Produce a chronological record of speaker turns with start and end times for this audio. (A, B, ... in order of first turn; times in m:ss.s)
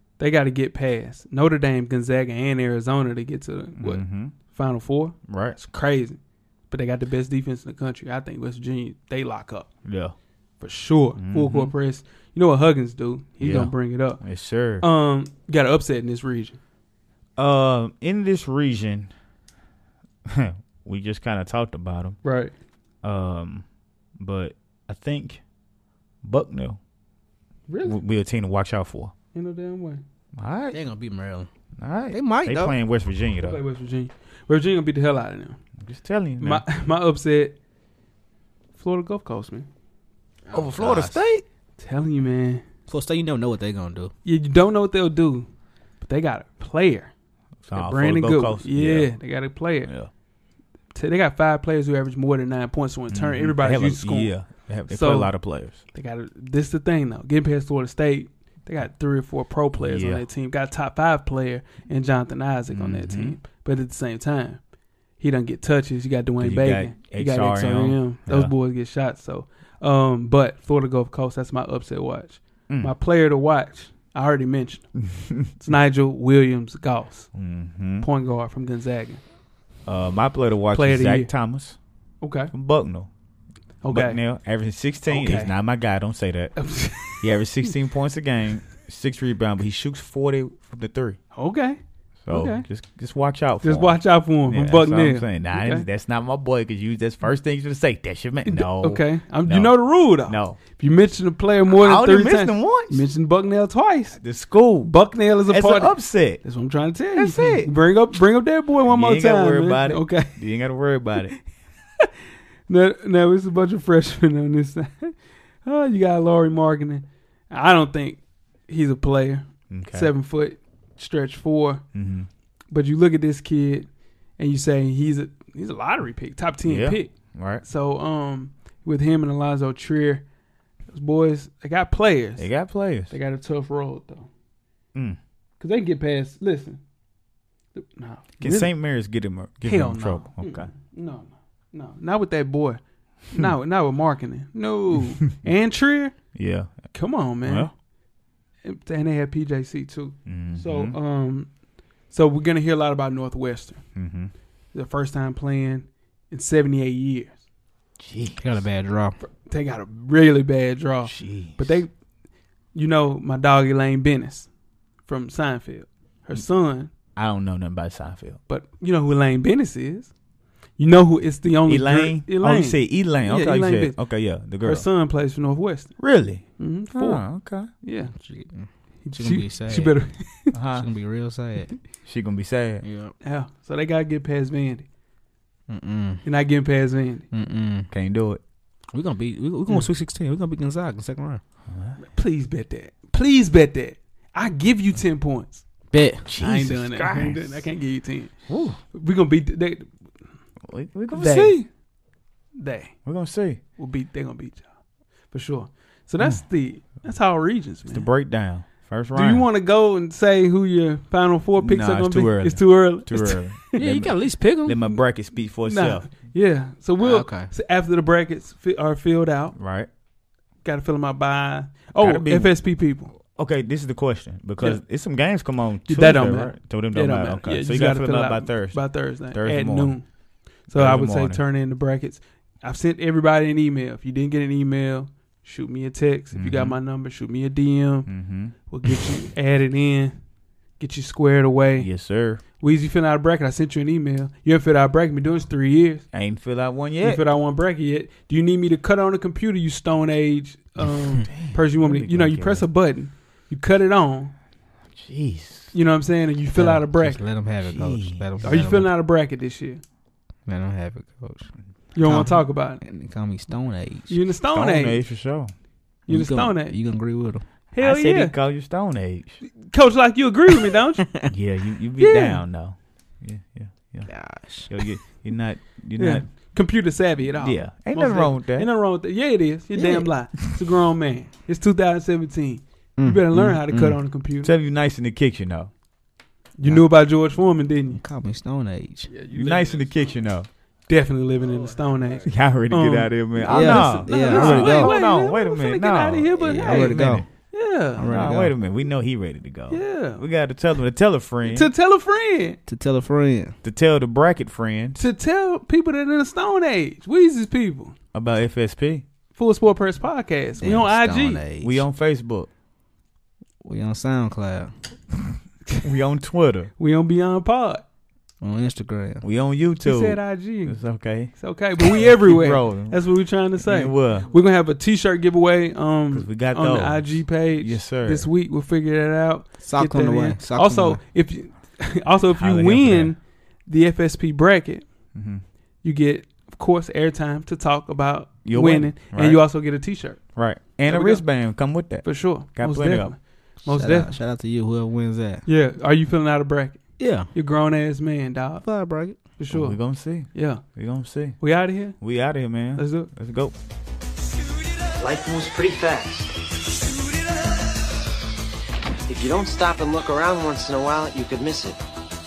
0:00.2-0:06.2 A
0:03.8-0:04.3 B
0:05.3-0:05.6 B
0:06.7-0:09.7 A
0:09.8-0:10.1 B
0:10.6-0:14.2 A
0:11.2-0:11.7 B
0:13.4-0:14.9 B
0:14.8-0:16.6 A
0:17.4-0:19.1 B
0:20.3-0:22.2 B
0:22.2-0:22.5 A
0:23.0-0:23.7 B
0:24.2-0:25.4 B
0:26.2-0:26.8 B
0:27.7-0:28.0 A
0:27.8-0:29.1 B
0:29.3-0:30.0 A
0:30.4-0:30.8 B
0:30.7-0:31.5 C
0:31.8-0:33.6 B
0:32.1-0:32.7 C
0:33.4-0:35.6 A
0:35.8-0:36.6 B
0:36.4-0:37.6 A
0:38.8-0:39.7 A
0:40.4-0:41.3 C
0:40.5-0:41.4 B
0:41.8-0:42.6 A
0:42.9-0:44.1 C
0:44.2-0:45.5 A
0:46.0-0:47.1 A
0:47.6-0:49.1 B
0:47.7-0:49.9 A
0:49.8-0:50.1 B
0:50.9-0:54.4 A
0:53.1-0:55.8 B
0:54.9-0:55.3 A
0:55.9-1:04.6 A
0:59.8-1:00.2 B
1:02.7-1:03.4 B
1:05.2-1:14.9 A
1:06.4-1:08.5 B
1:12.7-1:12.9 B
1:15.1-1:15.5 B
1:15.5-1:17.3 A
1:17.3-1:18.1 B
1:18.0-1:19.2 A
1:19.9-1:21.8 B
1:20.7-1:21.3 A
1:22.2-1:22.5 A
1:22.5-1:23.1 B
1:23.8-1:24.2 A
1:23.9-1:26.6 B
1:25.1-1:25.6 A
1:26.6-1:27.3 A
1:27.2-1:31.2 B
1:31.3-1:32.6 A
1:32.2-1:40.6 B
1:33.6-1:35.9 A
1:38.4-1:44.2 A
1:41.7-1:43.0 B
1:44.2-1:44.9 B
1:44.8-1:50.4 A
1:45.5-1:46.4 B
1:47.2-1:47.7 B
1:48.8-1:51.3 B
1:52.7-2:01.8 A
1:59.7-2:00.1 B
2:01.9-2:02.3 B
2:02.7-2:03.9 A
2:04.4-2:07.1 A
2:06.7-2:07.6 B
2:07.6-2:10.2 A
2:10.9-2:12.5 A
2:12.4-2:13.1 B
2:13.1-2:14.3 A
2:14.9-2:15.2 B
2:15.6-2:16.8 A
2:17.7-2:18.7 A
2:18.4-2:20.7 B
2:19.6-2:26.2 A
2:26.3-2:26.9 B
2:26.9-2:27.7 A
2:27.4-2:27.7 B
2:28.6-2:31.5 A
2:30.3-2:31.0 B
2:32.1-2:33.8 A
2:34.0-2:34.3 B
2:34.7-2:37.4 A
2:38.0-2:38.6 B
2:38.4-2:39.2 C
2:39.2-2:41.9 A
2:41.0-2:41.8 B
2:42.7-2:44.5 A
2:45.1-2:46.9 A
2:47.2-2:48.4 B
2:48.5-2:50.1 A
2:50.8-2:54.0 A
2:51.7-2:54.9 B
2:54.6-2:56.0 A
2:56.0-2:57.7 B
2:56.6-2:57.3 A
2:57.8-2:58.1 A
2:58.1-3:00.0 C
2:59.0-3:00.6 A
3:00.5-3:00.9 B
3:00.8-3:01.7 C
3:02.0-3:02.8 B
3:02.8-3:03.1 C
3:03.2-3:04.8 A
3:05.7-3:06.2 C
3:06.2-3:07.3 A
3:07.3-3:07.9 C
3:07.9-3:08.4 B
3:08.9-3:11.4 C
3:11.7-3:12.0 B
3:12.0-3:15.7 A
3:15.9-3:16.3 C
3:16.3-3:17.6 B
3:16.4-3:18.3 A
3:18.5-3:18.8 B
3:18.9-3:19.9 A
3:20.6-3:21.6 B
3:21.1-3:21.7 A
3:22.6-3:23.0 A
3:23.0-3:23.6 B
3:23.8-3:24.6 A
3:25.3-3:28.1 A
3:27.9-3:29.4 B
3:29.1-3:33.8 A
3:31.6-3:36.1 B
3:33.8-3:34.8 C
3:35.6-3:39.6 A
3:37.0-3:37.5 C
3:39.6-3:39.9 B
3:40.6-3:43.1 A
3:42.0-3:42.6 B
3:43.3-3:50.0 B
3:45.9-3:50.1 A
3:50.7-3:58.1 A
3:50.7-3:51.4 B
3:56.4-3:56.8 B
3:58.1-3:58.9 B
3:58.7-4:00.2 A
4:00.8-4:01.9 A
4:01.8-4:02.4 B
4:02.6-4:06.0 A
4:06.1-4:07.2 B
4:07.0-4:14.3 A
4:11.3-4:12.7 B
4:14.9-4:15.7 B
4:15.7-4:17.2 A
4:16.6-4:18.9 C
4:17.6-4:18.2 B
4:18.4-4:19.8 A
4:20.4-4:21.5 C
4:22.0-4:22.8 A
4:22.0-4:24.2 C
4:24.1-4:25.0 A
4:24.5-4:25.5 B
4:26.1-4:26.7 A
4:26.1-4:27.4 C
4:27.7-4:28.3 A
4:27.8-4:29.4 B
4:29.5-4:31.1 A
4:31.3-4:34.1 B
4:32.0-4:32.4 A
4:34.1-4:34.9 C
4:34.7-4:36.3 B
4:36.0-4:44.5 A
4:37.4-4:38.7 B
4:39.8-4:40.1 C
4:43.0-4:44.0 C
4:44.4-4:45.7 B
4:46.6-4:48.0 A
4:48.0-4:49.1 C
4:49.1-4:50.0 A
4:49.3-4:50.5 B
4:50.9-4:58.3 A
4:52.2-4:57.2 B
4:53.5-4:55.0 C
4:56.4-4:57.3 C
4:58.0-4:58.5 C
4:58.1-5:01.7 B
4:59.7-5:00.2 A
5:01.4-5:02.6 A
5:02.7-5:03.6 C
5:03.6-5:05.0 B
5:05.0-5:07.9 A
5:08.1-5:09.0 B
5:09.4-5:11.4 A
5:10.6-5:11.8 C
5:11.6-5:12.5 B
5:13.6-5:14.7 C
5:15.8-5:16.7 B
5:16.8-5:17.8 A
5:18.4-5:19.2 C
5:19.2-5:23.0 B
5:19.8-5:20.8 A
5:21.3-5:34.9 A
5:23.6-5:24.3 B
5:26.1-5:28.3 B
5:29.6-5:31.0 C
5:32.3-5:33.1 B
5:35.1-5:35.4 B
5:35.8-5:40.2 A
5:38.4-5:39.4 B
5:40.4-5:43.1 B
5:40.9-5:41.2 A
5:42.0-5:44.2 A
5:43.6-5:45.4 C
5:45.4-5:46.8 A
5:47.0-5:47.3 C
5:47.3-5:48.6 A
5:48.6-5:49.2 C
5:49.4-5:50.6 A
5:49.5-5:51.4 B
5:51.4-5:52.0 A
5:52.0-5:53.6 B
5:52.8-5:53.1 A
5:55.0-5:56.4 D
5:59.1-6:01.8 D